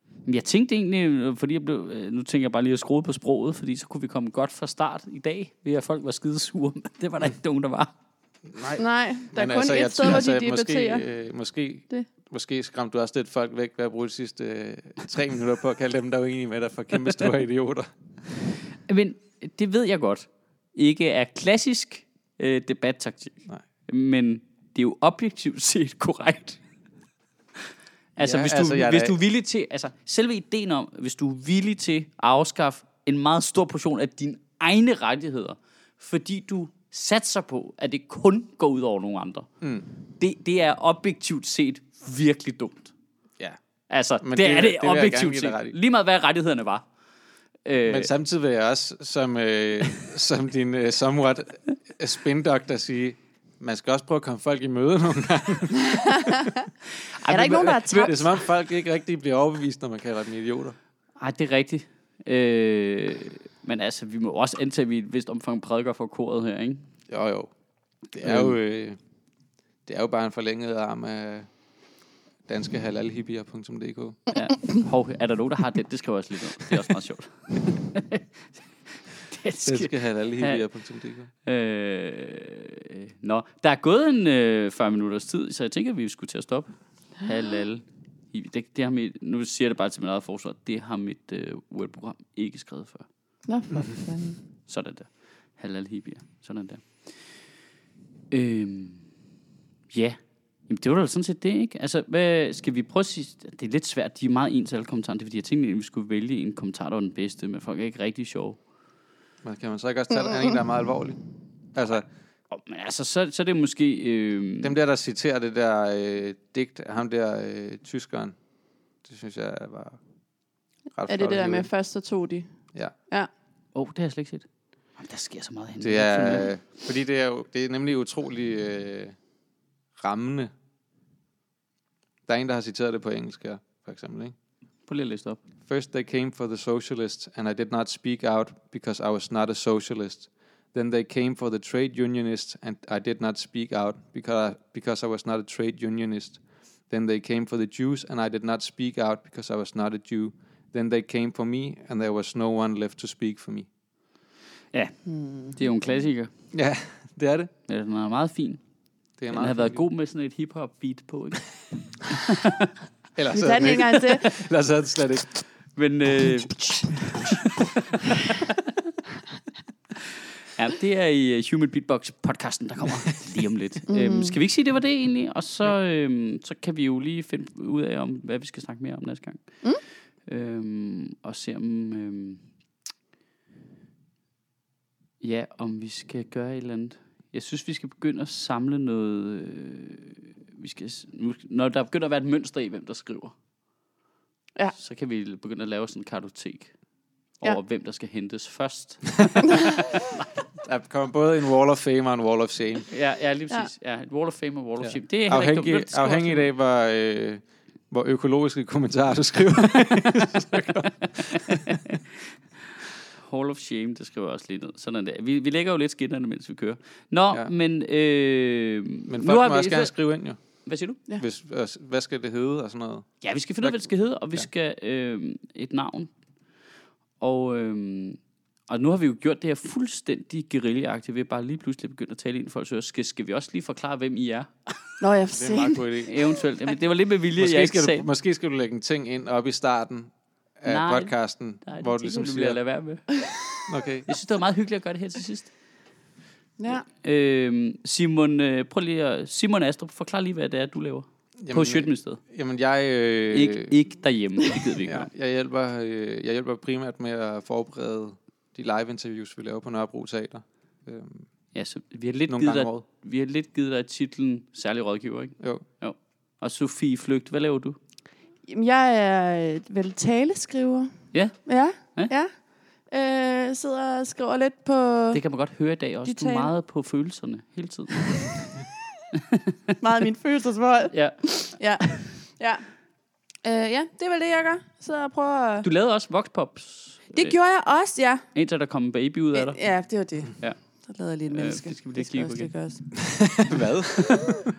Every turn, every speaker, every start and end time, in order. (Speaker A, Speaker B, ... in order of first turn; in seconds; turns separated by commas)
Speaker A: 0.2-7.9, Speaker B: 8.4-17.9, Speaker C: 8.8-11.0, Speaker A: 18.9-26.6, Speaker A: 28.1-39.5, Speaker B: 28.2-29.1, Speaker B: 39.6-39.9, Speaker A: 40.2-42.9, Speaker A: 43.9-46.9, Speaker B: 44.2-45.8, Speaker A: 47.6-48.1, Speaker B: 47.9-56.4, Speaker C: 55.9-56.5, Speaker A: 57.2-57.8, Speaker C: 57.2-58.4, Speaker B: 57.3-60.8, Speaker A: 61.2-66.8, Speaker B: 67.1-67.5, Speaker B: 68.1-69.0, Speaker A: 68.2-68.5, Speaker B: 69.8-71.5, Speaker B: 72.5-74.3, Speaker A: 74.3-78.2, Speaker A: 79.2-80.6, Speaker B: 79.7-81.3, Speaker A: 81.4-93.1, Speaker C: 93.5-94.4, Speaker A: 94.6-97.4, Speaker A: 98.3-99.1, Speaker A: 99.9-108.6, Speaker B: 109.4-111.2, Speaker B: 111.7-112.0, Speaker A: 112.5-114.7, Speaker B: 114.6-118.4, Speaker B: 119.0-120.0, Speaker B: 120.9-121.7, Speaker C: 121.1-122.5, Speaker A: 123.7-126.5, Speaker B: 125.8-129.2, Speaker B: 130.0-130.5, Speaker B: 132.3-134.3, Speaker A: 134.8-135.4, Speaker B: 135.7-153.7, Speaker A: 154.7-155.0, Speaker C: 155.1-155.6, Speaker A: 155.6-156.3, Speaker B: 156.5-157.5, Speaker A: 157.7-158.6, Speaker B: 159.2-159.8, Speaker A: 159.3-162.7, Speaker B: 163.1-165.4, Speaker C: 163.3-164.4, Speaker A: 165.7-168.6, Speaker A: 170.5-179.7, Speaker C: 173.9-174.4, Speaker A: 180.2-182.4, Speaker A: 185.2-193.3, Speaker A: 194.8-196.8, Speaker A: 197.4-199.6, Speaker B: 200.6-202.9, Speaker A: 202.9-206.4, Speaker B: 204.8-211.7, Speaker A: 211.1-212.0, Speaker A: 213.1-219.9, Speaker B: 219.1-220.6, Speaker A: 220.6-221.0, Speaker B: 221.2-224.5, Speaker A: 223.2-226.1, Speaker A: 227.2-234.9, Speaker C: 235.0-235.8, Speaker B: 235.3-236.1, Speaker A: 236.0-238.1, Speaker B: 237.4-242.6, Speaker A: 240.7-243.2, Speaker B: 243.7-244.1, Speaker A: 244.1-245.5, Speaker C: 246.6-246.8, Speaker A: 246.7-252.2, Speaker B: 251.4-253.8, Speaker A: 253.3-255.1, Speaker B: 254.8-261.3, Speaker A: 261.5-267.8, Speaker B: 262.3-262.8, Speaker B: 265.4-265.6, Speaker C: 268.4-272.3, Speaker A: 271.1-272.1, Speaker C: 272.9-275.2, Speaker A: 275.1-278.4, Speaker C: 276.0-276.5, Speaker A: 279.1-279.7, Speaker C: 279.8-282.6, Speaker A: 280.9-282.0, Speaker C: 283.4-285.7, Speaker A: 285.6-287.4, Speaker C: 287.1-288.3, Speaker A: 288.3-289.6, Speaker C: 289.3-293.4, Speaker A: 291.3-292.5, Speaker B: 293.4-294.4